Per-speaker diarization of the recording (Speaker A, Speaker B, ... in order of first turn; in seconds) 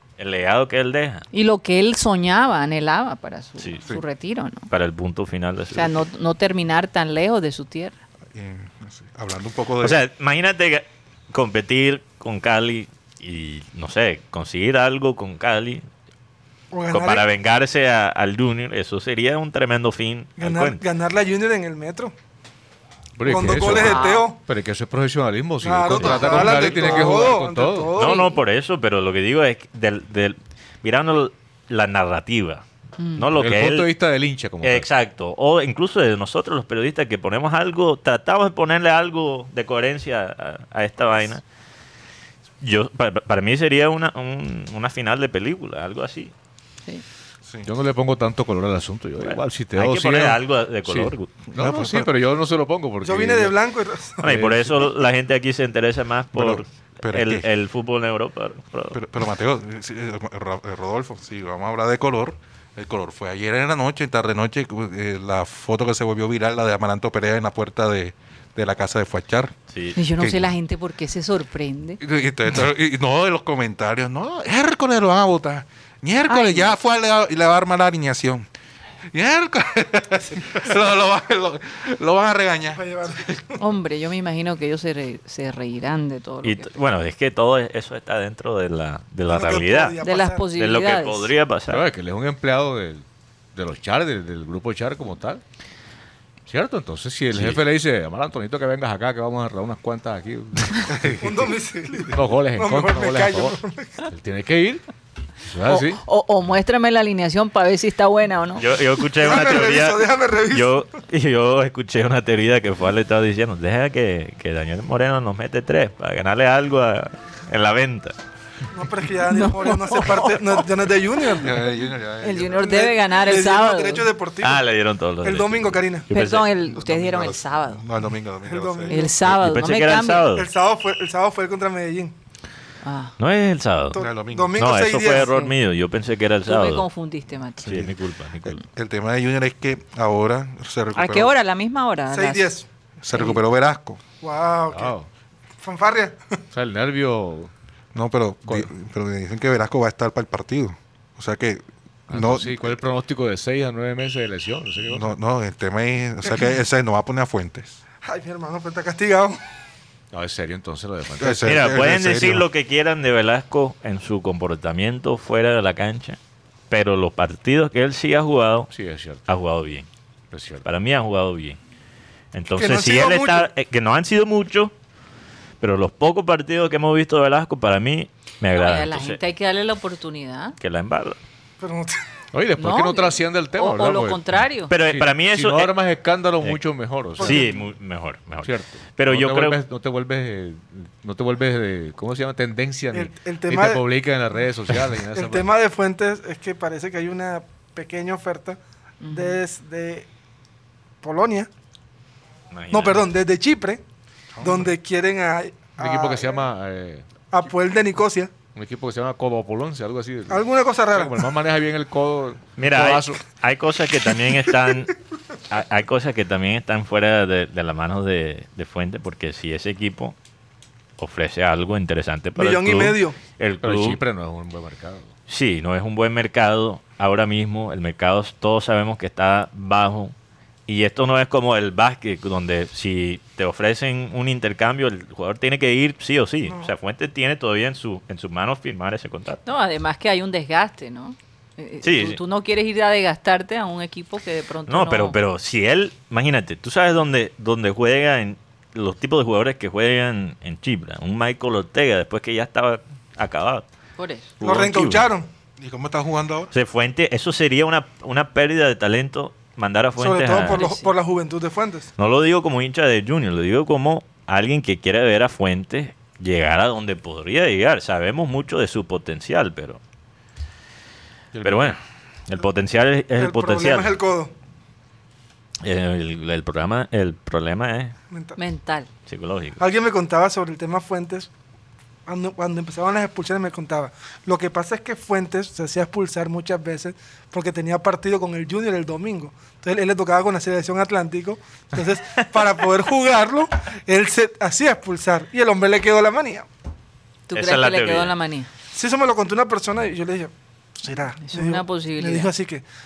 Speaker A: 0.2-1.3, 4.7-6.0, 9.8-15.8, 16.9-20.8, 26.0-27.0, 28.0-32.6, 33.2-33.9, 34.6-41.4, 42.6-46.3, 49.2-51.3, 54.2-59.0, 69.7-70.0, 86.4-90.0, 90.6-91.9, 97.3-97.6, 108.6-118.2, 124.4-126.5, 129.2-130.5, 133.2-134.0, 134.6-136.8, 137.7-138.6, 161.5-166.2, 166.7-168.7, 169.3-169.9, 170.7-171.6, 172.3-174.7, 175.6-179.2, 180.6-181.2, 184.7-185.8, 186.4-189.6, 202.5-203.0, 212.6-214.9, 215.5-220.2, 221.0-224.0, 225.3-230.1, 230.7-239.4, 241.8-242.2, 244.7-253.7, 254.4-255.1, 256.5-260.6, 262.0-269.8, 271.4-274.0, 275.6-277.9, 279.1-279.6, 297.3-298.1
Speaker B: 1.3-4.7, 5.7-8.0, 23.6-24.2, 28.0-28.4, 33.0-33.3, 70.0-72.0, 76.3-76.7, 83.6-86.7, 90.0-91.3, 105.7-108.7, 119.3-120.6, 122.2-124.1, 126.1-127.8, 128.9-130.3, 132.8-133.1, 135.1-135.5, 136.5-137.7, 141.0-142.5, 143.1-143.4, 178.6-180.6, 182.6-184.7, 199.0-199.4, 239.4-245.2, 254.0-254.3, 260.4-260.9, 278.4-278.9, 297.3-298.5, 301.2-302.3
Speaker C: 8.3-10.0, 51.5-52.1, 56.3-57.5, 58.9-69.5, 70.2-70.5, 72.0-78.5, 79.1-82.8, 101.0-101.2, 121.4-122.7, 126.6-129.1, 134.0-134.6, 137.6-137.9, 138.4-141.3, 143.0-144.0, 147.9-152.7, 154.9-157.8, 161.2-162.4, 204.4-204.7, 255.6-256.5
Speaker D: 16.7-17.3, 20.4-22.1, 23.2-24.4, 25.6-28.3, 53.0-54.2, 82.7-83.5, 89.3-90.5, 101.2-104.0, 109.2-110.8, 118.7-121.7, 122.6-124.6, 125.2-126.1, 128.5-129.1, 130.3-132.1, 133.9-135.3, 142.1-142.7, 144.2-144.9, 145.6-146.4, 158.0-159.4, 172.6-173.5, 181.6-181.9, 187.2-187.6, 192.9-193.8, 195.2-198.6, 199.1-200.1, 201.0-201.5, 202.7-203.8, 204.4-206.5, 207.3-208.3, 210.3-211.2, 222.4-223.2, 254.4-255.3, 260.0-261.9, 273.2-274.3, 278.1-278.4, 279.6-281.3, 282.1-296.5, 298.7-302.6
Speaker E: 23.2-27.9, 33.4-34.9, 47.6-53.6, 54.2-54.8, 91.7-95.4, 96.5-101.5, 102.1-104.8, 105.5-106.0, 144.7-145.1, 146.5-147.5, 152.1-155.2, 160.1-161.6, 168.7-169.2, 170.3-170.7, 182.3-184.2, 184.9-187.5, 188.4-195.5, 205.8-207.1, 208.6-213.2, 223.6-225.1, 271.4-271.7